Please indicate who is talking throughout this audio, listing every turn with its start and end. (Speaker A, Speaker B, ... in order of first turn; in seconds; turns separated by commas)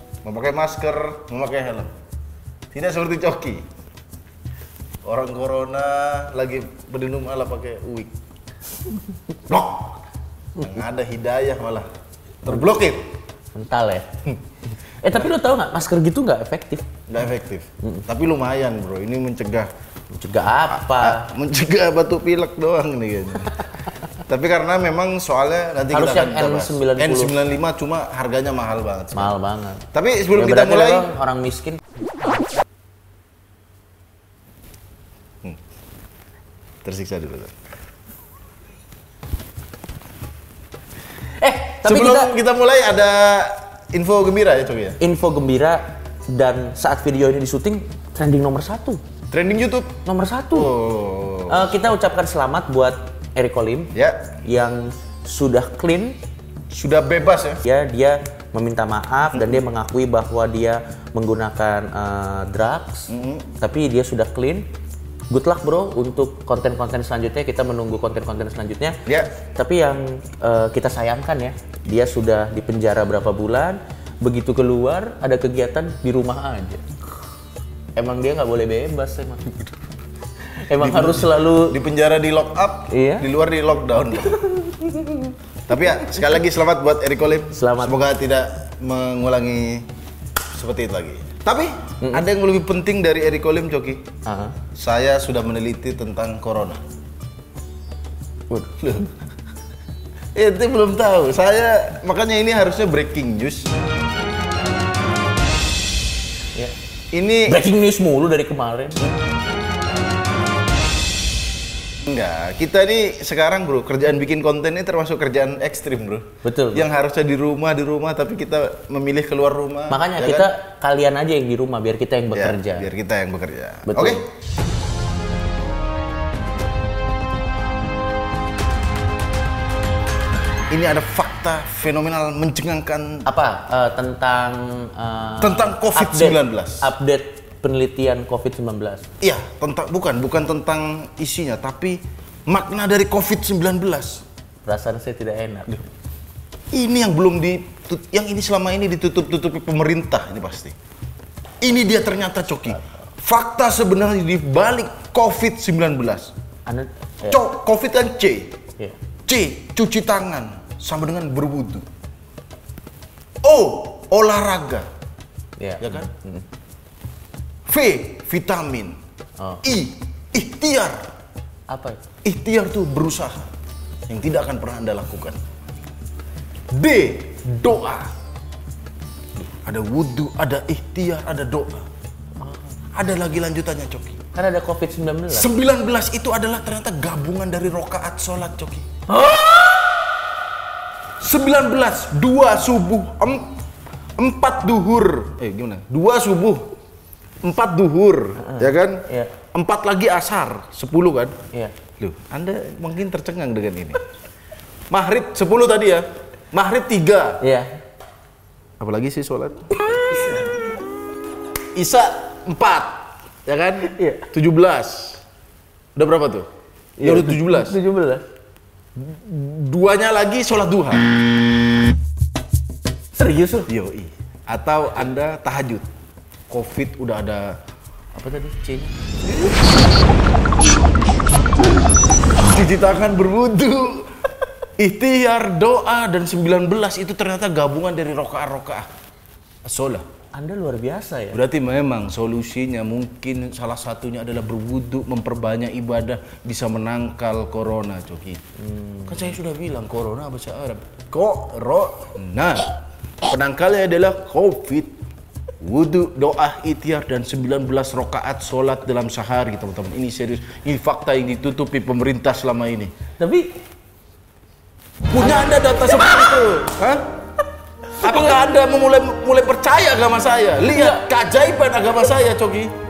Speaker A: 0.2-1.9, Speaker A: 2.7-3.7, Speaker A: 5.0-8.2, Speaker A: 9.5-10.0, Speaker A: 10.6-11.9, Speaker A: 12.4-13.1, Speaker B: 13.6-14.1, Speaker B: 15.0-16.9, Speaker A: 17.1-19.7, Speaker B: 20.1-21.3, Speaker A: 20.7-23.7, Speaker A: 24.3-29.4, Speaker B: 25.9-27.4, Speaker B: 29.1-31.8, Speaker A: 29.9-31.1, Speaker A: 36.9-37.5, Speaker B: 41.4-42.4, Speaker A: 41.8-45.0, Speaker B: 45.0-49.0, Speaker A: 49.3-50.0, Speaker B: 50.0-50.7, Speaker A: 50.5-51.8, Speaker B: 51.5-53.9, Speaker A: 53.9-54.4, Speaker B: 54.4-56.2, Speaker A: 56.7-57.6, Speaker B: 57.6-64.7, Speaker A: 59.3-59.6, Speaker A: 63.1-63.5, Speaker B: 65.3-69.0, Speaker A: 69.1-69.3, Speaker B: 69.5-76.8, Speaker B: 78.0-79.7, Speaker B: 80.6-81.8, Speaker A: 80.8-84.5, Speaker B: 82.9-83.3, Speaker B: 84.3-85.3, Speaker A: 85.7-89.9, Speaker B: 87.5-88.0, Speaker A: 90.5-94.1, Speaker B: 94.3-94.6, Speaker A: 94.8-96.8, Speaker B: 98.5-99.1, Speaker A: 98.8-99.1, Speaker A: 100.3-103.7, Speaker A: 107.1-107.7, Speaker B: 107.5-109.2, Speaker A: 112.0-120.5, Speaker B: 116.4-116.9, Speaker B: 119.9-122.9, Speaker A: 122.3-124.3, Speaker B: 123.9-124.2, Speaker A: 130.7-133.3, Speaker B: 133.3-139.1, Speaker A: 135.4-136.9, Speaker A: 139.2-144.2, Speaker B: 144.7-145.9, Speaker A: 146.7-150.8, Speaker A: 151.6-156.3, Speaker B: 152.7-152.9, Speaker B: 156.7-157.4, Speaker A: 157.2-158.6, Speaker A: 159.3-161.9, Speaker A: 163.4-164.9, Speaker B: 165.6-166.4, Speaker A: 165.8-166.1, Speaker A: 167.7-169.0, Speaker B: 169.4-169.7, Speaker A: 169.6-171.1, Speaker B: 171.7-172.0, Speaker A: 172.2-173.5, Speaker A: 174.1-175.4, Speaker A: 176.7-178.1, Speaker A: 179.6-181.9, Speaker B: 182.4-182.8, Speaker A: 182.9-184.2, Speaker B: 184.3-185.5, Speaker A: 185.3-188.9, Speaker B: 189.1-190.0, Speaker A: 191.2-193.5, Speaker A: 194.2-196.7, Speaker A: 197.4-201.4, Speaker B: 198.4-199.3, Speaker A: 202.0-204.0, Speaker A: 204.9-207.4, Speaker B: 207.4-207.8, Speaker A: 208.8-210.4, Speaker B: 210.1-210.4, Speaker A: 211.7-215.2, Speaker B: 213.8-214.3, Speaker A: 216.0-216.5, Speaker B: 217.0-218.2, Speaker A: 217.0-217.8, Speaker A: 219.0-221.1, Speaker B: 223.2-223.7, Speaker A: 223.7-225.9, Speaker A: 226.5-227.6, Speaker B: 228.2-229.0, Speaker A: 232.4-234.1, Speaker A: 234.8-238.9, Speaker A: 239.7-240.0, Speaker B: 240.3-241.4, Speaker A: 241.3-248.4, Speaker B: 248.7-249.4, Speaker A: 249.1-252.7, Speaker A: 253.2-255.0, Speaker A: 255.6-262.9, Speaker B: 263.2-263.5, Speaker A: 265.1-267.0, Speaker B: 265.8-266.4, Speaker A: 268.0-272.7, Speaker B: 268.0-268.3, Speaker B: 270.6-271.1